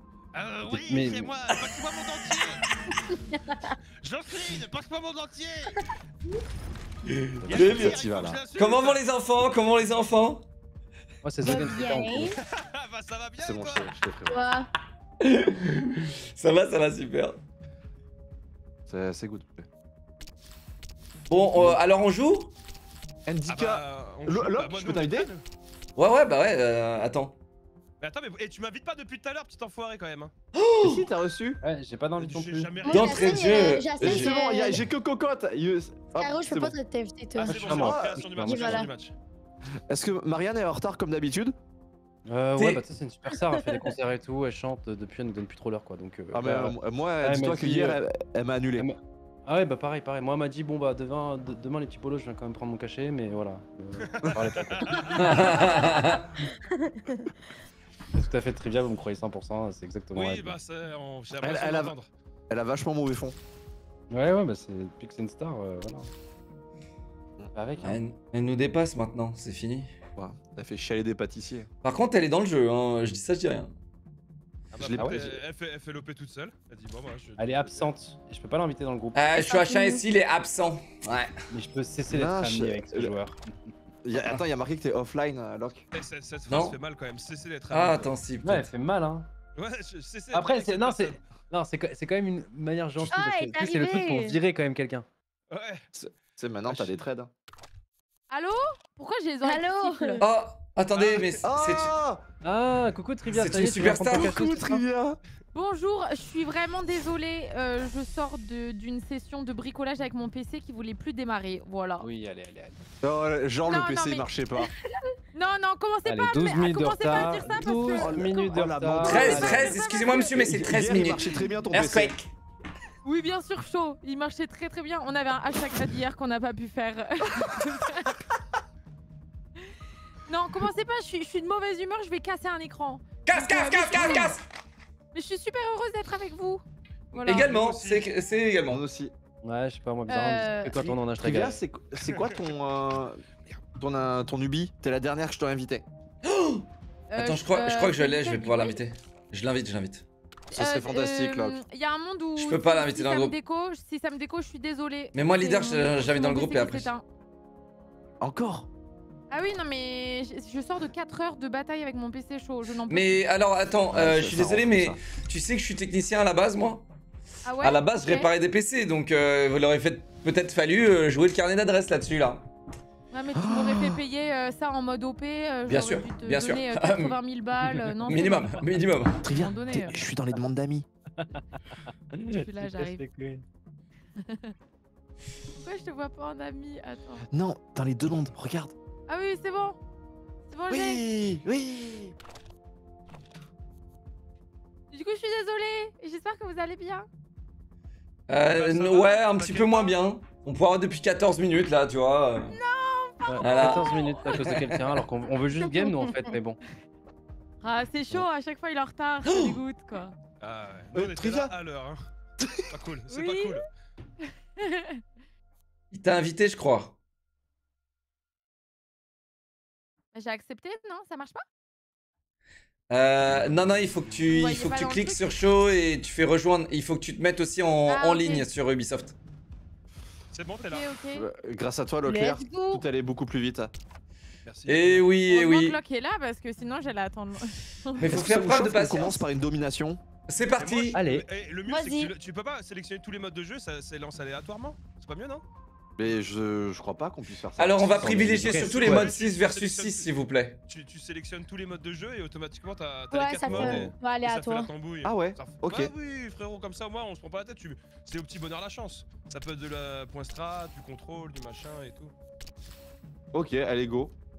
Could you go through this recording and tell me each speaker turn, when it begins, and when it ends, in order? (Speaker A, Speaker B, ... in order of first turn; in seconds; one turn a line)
Speaker A: 0.3-2.7
Speaker B: 0.7-1.3
Speaker C: 3.1-3.8
Speaker A: 4.0-5.8
Speaker D: 7.1-8.0
Speaker E: 7.4-8.4
Speaker A: 7.5-9.0
Speaker D: 8.5-10.4
Speaker B: 11.2-12.3
Speaker C: 11.4-12.4
Speaker A: 12.4-13.9
Speaker E: 13.4-14.4
Speaker C: 14.3-14.7
Speaker D: 15.2-17.4
Speaker E: 18.9-19.7
Speaker D: 21.3-22.5
Speaker E: 23.2-25.3
Speaker A: 23.5-25.4
Speaker D: 25.9-27.3
Speaker A: 28.0-30.3
Speaker D: 30.5-31.1
Speaker E: 30.8-31.6
Speaker B: 31.6-32.9
Speaker A: 32.2-33.5
Speaker C: 32.8-34.8
Speaker D: 32.9-34.3
Speaker E: 34.0-36.8
Speaker C: 36.2-37.6
Speaker B: 37.4-38.9
Speaker A: 37.4-39.1
Speaker E: 37.6-38.5
Speaker C: 38.5-38.9
Speaker E: 39.9-41.5
Speaker B: 42.2-48.0
Speaker D: 42.5-42.8
Speaker C: 43.5-43.9
Speaker E: 46.3-48.9
Speaker B: 48.8-56.0
Speaker A: 54.0-55.2
Speaker D: 55.1-56.2
Speaker C: 56.7-57.2
Speaker B: 58.1-60.5
Speaker A: 60.1-62.1
Speaker E: 61.4-61.9
Speaker E: 62.5-63.4
Speaker B: 64.1-66.1
Speaker B: 67.5-68.0
Speaker D: 67.8-69.9
Speaker E: 70.2-71.7
Speaker D: 71.8-73.7
Speaker A: 74.7-77.9
Speaker E: 74.7-75.4
Speaker B: 74.9-75.2
Speaker B: 77.4-79.2
Speaker D: 79.1-81.3
Speaker C: 79.3-80.0
Speaker B: 81.5-83.7
Speaker E: 82.1-83.1
Speaker E: 84.0-85.8
Speaker D: 84.1-84.4
Speaker A: 85.9-88.1
Speaker D: 86.5-86.8
Speaker D: 87.7-88.7
Speaker B: 88.4-89.3
Speaker A: 89.5-91.2
Speaker B: 90.3-95.1
Speaker C: 93.1-94.4
Speaker A: 95.5-95.8
Speaker E: 95.9-97.3
Speaker A: 96.7-97.0
Speaker F: 98.3-100.2
Speaker C: 99.4-100.3
Speaker D: 100.2-102.0
Speaker A: 100.9-101.4
Speaker E: 101.4-102.2
Speaker B: 102.4-104.8
Speaker D: 103.2-104.3
Speaker E: 103.6-105.2
Speaker F: 105.5-112.1
Speaker B: 112.0-112.8
Speaker E: 113.0-114.7
Speaker F: 113.6-114.3
Speaker F: 115.3-118.7
Speaker B: 116.0-119.7
Speaker E: 118.0-122.1
Speaker D: 119.0-122.3
Speaker F: 119.4-120.4
Speaker F: 123.0-128.2
Speaker F: 130.3-134.4
Speaker D: 133.2-134.4
Speaker F: 135.1-137.5
Speaker D: 137.2-138.8
Speaker A: 137.2-138.0
Speaker E: 138.7-139.1
Speaker B: 139.4-141.6
Speaker F: 140.1-140.9
Speaker E: 141.2-145.8
Speaker A: 142.0-142.3
Speaker D: 146.2-150.0
Speaker F: 147.1-148.8
Speaker E: 150.5-151.6
Speaker F: 150.5-157.0
Speaker D: 152.3-153.3
Speaker D: 155.1-156.9
Speaker E: 158.2-158.7
Speaker F: 159.3-163.2
Speaker D: 162.9-166.8
Speaker E: 163.9-165.0
Speaker F: 167.4-168.3
Speaker D: 167.6-172.4
Speaker F: 173.1-178.7
Speaker E: 173.3-174.0
Speaker D: 175.7-177.2
Speaker D: 178.0-179.2
Speaker E: 179.2-180.9
Speaker F: 179.2-180.0
Speaker B: 182.1-183.4
Speaker F: 182.3-183.0
Speaker F: 184.2-184.5
Speaker F: 185.6-187.2
Speaker E: 187.3-188.7
Speaker F: 189.1-189.8
Speaker F: 190.5-191.0
Speaker E: 190.7-192.1
Speaker F: 194.9-197.1
Speaker D: 198.3-202.6
Speaker A: 198.5-200.0
Speaker F: 202.5-204.2
Speaker B: 203.2-206.6
Speaker D: 203.4-205.0
Speaker F: 207.6-210.1
Speaker D: 209.2-209.6
Speaker A: 210.4-212.0
Speaker E: 210.9-211.5
Speaker E: 212.4-212.7
Speaker A: 212.7-213.7
Speaker F: 213.1-213.6
Speaker F: 214.6-214.9
Speaker D: 215.9-216.9
Speaker F: 220.1-221.4
Speaker D: 222.9-229.1
Speaker F: 224.3-225.3
Speaker F: 227.8-228.4
Speaker A: 230.3-230.9
Speaker F: 230.6-231.3
Speaker E: 231.1-233.7
Speaker C: 232.0-232.8
Speaker A: 234.4-235.1
Speaker D: 234.7-235.8
Speaker F: 235.2-238.1
Speaker D: 238.0-239.3
Speaker E: 238.1-240.0
Speaker D: 240.3-241.0
Speaker A: 240.6-245.4
Speaker B: 240.9-241.2
Speaker C: 241.7-242.1
Speaker E: 246.0-249.0
Speaker D: 247.6-250.6
Speaker B: 248.0-249.1
Speaker A: 248.6-250.1
Speaker A: 250.7-262.1
Speaker C: 253.1-254.7
Speaker E: 253.5-253.9
Speaker E: 255.0-255.9
Speaker E: 263.3-264.1